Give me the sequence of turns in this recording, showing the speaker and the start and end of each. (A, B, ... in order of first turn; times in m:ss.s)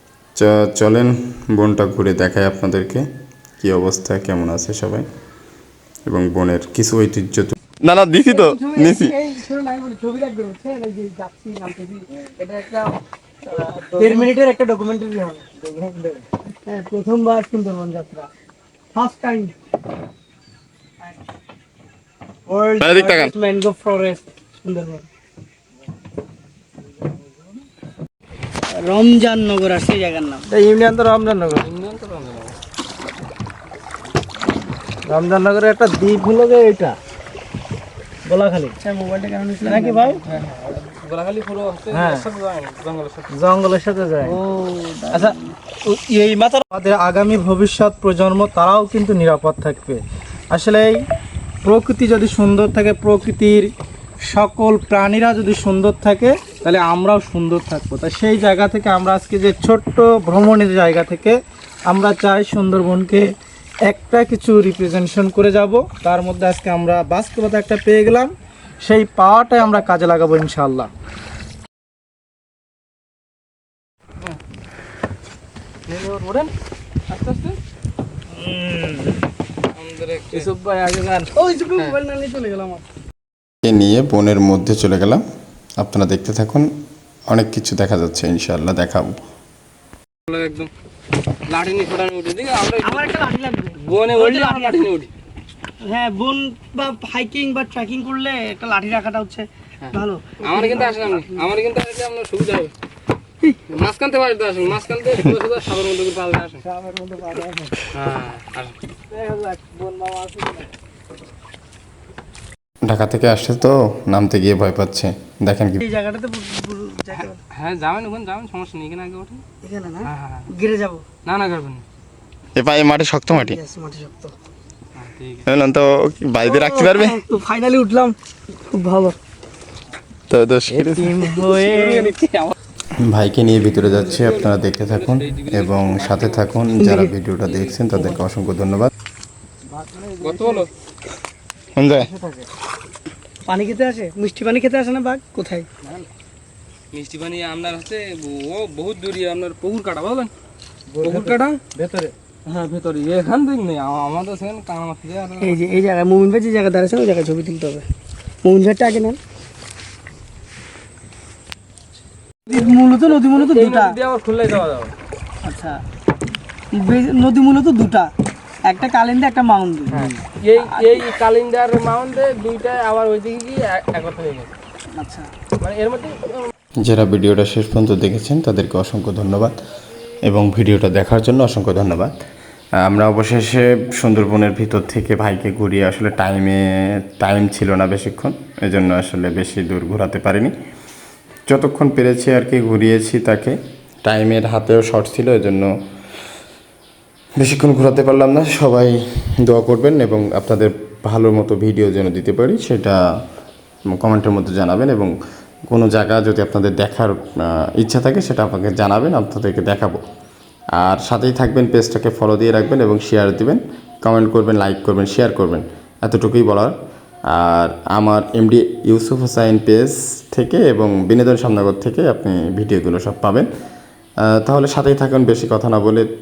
0:00.4-0:03.0 A
0:03.6-0:05.0 A
0:06.1-0:09.2 A
0:08.3-0:13.0 B
0:13.8-0:15.5 B
0:13.9-0:14.3 C
0:15.8-0:16.1 C
0:16.6-0:18.3 B
0:18.9-0:19.5 B
0:22.5-0:25.0 B
0:22.8-0:23.3 A
0:28.8-0:30.4 B
0:30.5-0:31.7 C
0:31.5-0:32.6 D
0:35.0-0:37.0 C
0:38.2-0:38.8 C
0:38.8-0:40.2 B
0:39.6-0:40.2 C
0:40.3-0:43.3 D
0:41.9-0:42.2 C
0:43.3-0:44.4 C
0:44.2-0:45.4 B
0:45.1-0:51.0 C
0:51.6-0:53.7 C
0:54.2-1:01.4 C
1:01.9-1:03.3 C
1:03.8-1:10.9 C
1:15.9-1:16.5 D
1:17.1-1:17.6 D
1:18.4-1:19.2 B
1:19.7-1:20.5 D
1:20.3-1:22.8 B
1:23.6-1:25.2 A
1:25.8-1:26.7 A
1:27.3-1:29.2 A
1:30.2-1:30.7 D
1:31.5-1:33.3 D
1:32.8-1:34.9 B
1:33.8-1:35.1 D
1:35.8-1:41.4 B
1:39.8-1:42.7 D
1:43.7-1:46.6 D
1:46.7-1:47.7 C
1:47.9-1:48.8 D
1:49.1-1:50.6 C
1:52.8-1:55.8 A
1:55.8-1:57.4 B
1:57.2-1:59.4 D
1:59.6-2:01.0 B
2:00.0-2:00.5 D
2:01.2-2:01.8 D
2:02.6-2:03.6 A
2:03.3-2:04.3 B
2:04.9-2:05.4 D
2:05.4-2:07.2 A
2:06.4-2:09.2 B
2:10.3-2:11.4 A
2:10.7-2:12.2 B
2:11.5-2:12.5 D
2:13.0-2:18.9 A
2:13.8-2:16.4 D
2:16.8-2:17.1 B
2:17.5-2:17.8 D
2:19.7-2:20.6 C
2:20.2-2:20.7 D
2:21.8-2:22.1 A
2:22.0-2:22.4 C
2:23.4-2:25.7 B
2:26.9-2:30.3 D
2:30.9-2:32.1 C
2:31.0-2:31.6 D
2:32.4-2:35.6 D
2:35.4-2:37.8 B
2:38.4-2:39.2 B
2:42.5-2:44.0 B
2:42.5-2:44.9 D
2:45.4-2:45.8 B
2:46.7-2:48.1 B
2:48.6-2:50.2 B
2:49.9-2:54.5 D
2:54.9-2:55.3 B
2:55.6-2:56.5 D
2:56.8-2:59.5 A
3:00.2-3:02.1 A
3:02.8-3:10.5 A
3:11.5-3:15.7 A
3:17.4-3:23.0 A
3:23.9-3:25.1 A
3:25.7-3:30.0 A
3:30.8-3:36.7 A
3:37.3-3:43.5 A
3:44.2-3:46.1 A